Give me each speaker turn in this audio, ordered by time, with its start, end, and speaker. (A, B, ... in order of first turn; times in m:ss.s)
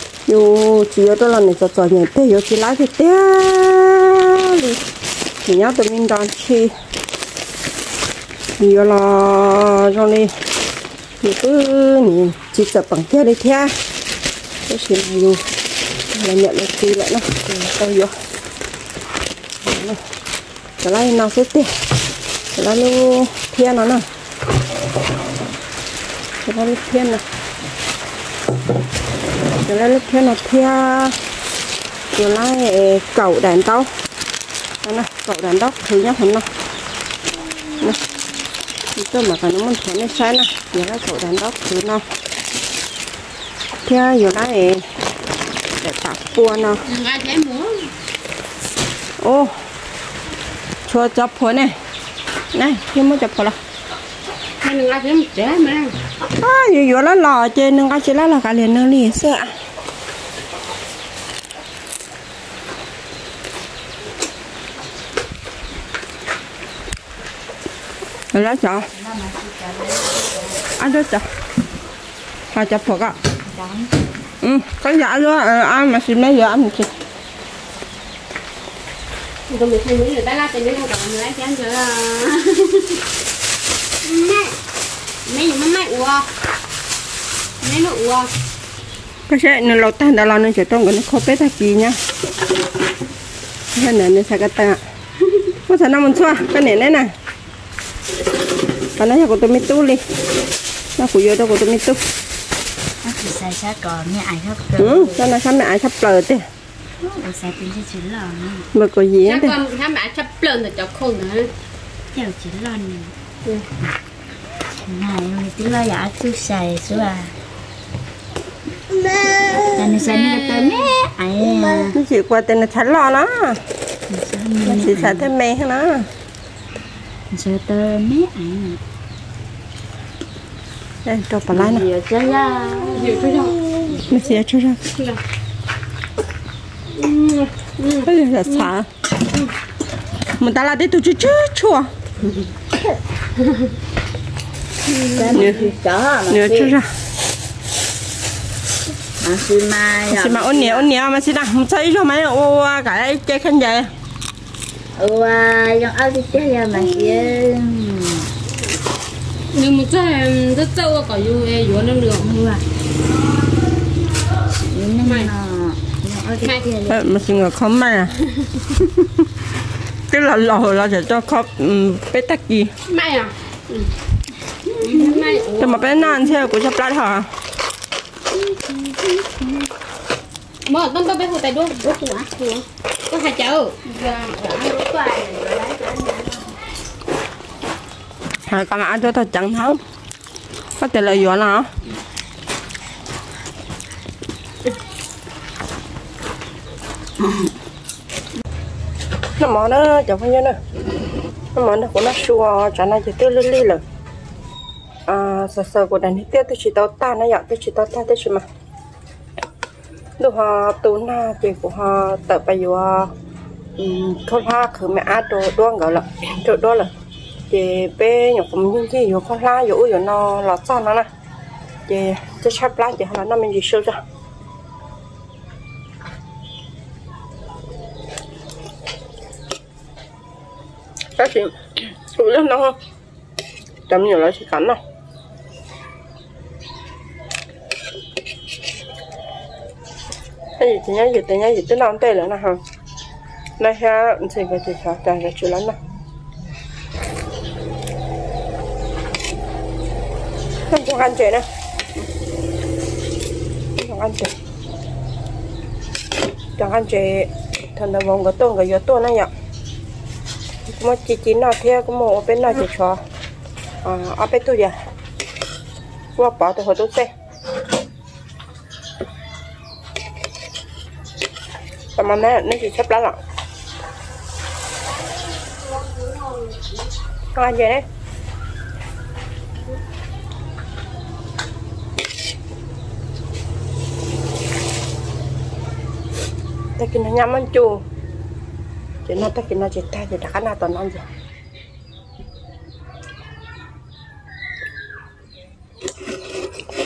0:00.3-0:04.8 A
0:05.5-0:06.7 A
0:08.6-0:10.3 A
0:11.2-0:13.8 A
0:14.7-0:15.4 A
0:16.1-0:18.1 A
0:19.7-0:20.0 A
0:20.8-0:21.7 A
0:22.6-0:24.1 A
0:26.4-0:27.2 A
0:29.6-0:31.2 A
0:32.1-0:33.9 A
0:34.8-0:36.5 A
0:39.0-0:42.0 A
0:43.9-0:44.9 A
0:45.8-0:46.8 A
0:46.8-0:47.9 B
0:49.2-0:49.6 A
0:50.9-0:51.8 A
0:52.5-0:53.6 A
0:54.6-0:56.0 B
0:56.3-0:59.6 A
1:08.3-1:08.9 A
1:08.9-1:10.6 C
1:10.8-1:11.3 A
1:12.5-1:13.2 A
1:13.4-1:14.1 C
1:14.4-1:16.9 A
1:19.5-1:23.0 B
1:24.0-1:24.6 B
1:25.2-1:26.3 B
1:27.6-1:28.3 B
1:29.3-1:32.0 A
1:33.7-1:34.8 A
1:35.7-1:37.1 A
1:39.0-1:40.0 A
1:41.0-1:42.0 A
1:43.0-1:45.3 C
1:44.8-1:46.5 A
1:47.0-1:48.7 C
1:48.7-1:49.6 A
1:49.2-1:51.5 B
1:52.1-1:53.2 C
1:54.8-1:57.4 C
1:59.7-2:02.0 C
1:59.9-2:00.9 B
2:01.9-2:03.6 A
2:04.1-2:05.3 C
2:04.6-2:06.1 A
2:07.3-2:08.8 C
2:11.0-2:11.9 A
2:11.5-2:13.3 C
2:12.9-2:13.7 B
2:13.9-2:14.8 A
2:16.9-2:18.7 B
2:18.0-2:18.9 A
2:20.4-2:21.9 A
2:24.9-2:25.7 B
2:25.1-2:26.8 C
2:25.3-2:25.7 A
2:26.3-2:26.9 A
2:29.2-2:30.9 C
2:30.1-2:33.9 A
2:35.0-2:38.3 C
2:36.8-2:37.4 B
2:39.5-2:42.3 B
2:42.2-2:42.6 C
2:44.7-2:47.0 C
2:45.0-2:45.3 B
2:46.4-2:46.7 B
2:46.9-2:48.2 A
2:50.1-2:52.7 A
2:52.9-2:53.9 B
2:54.8-2:56.2 B
2:55.6-2:57.3 A
3:00.6-3:03.8 B
3:03.8-3:06.4 C
3:08.5-3:09.8 A
3:10.8-3:11.7 A
3:19.4-3:20.6 A
3:21.6-3:23.8 A
3:25.1-3:28.4 A
3:30.2-3:33.1 A
3:33.8-3:36.9 A
3:37.5-3:41.1 A
3:41.9-3:44.0 A
3:51.2-3:52.8 A
3:53.9-3:54.8 A
4:00.6-4:02.6 A
4:03.6-4:05.8 A
4:10.7-4:11.4 A
4:13.8-4:14.3 A
4:16.6-4:19.3 A
4:20.7-4:23.0 A
4:23.8-4:24.8 A
4:26.2-4:27.1 A
4:32.0-4:33.2 A
4:37.4-4:37.8 A
4:46.8-4:47.8 A
4:49.1-4:51.1 A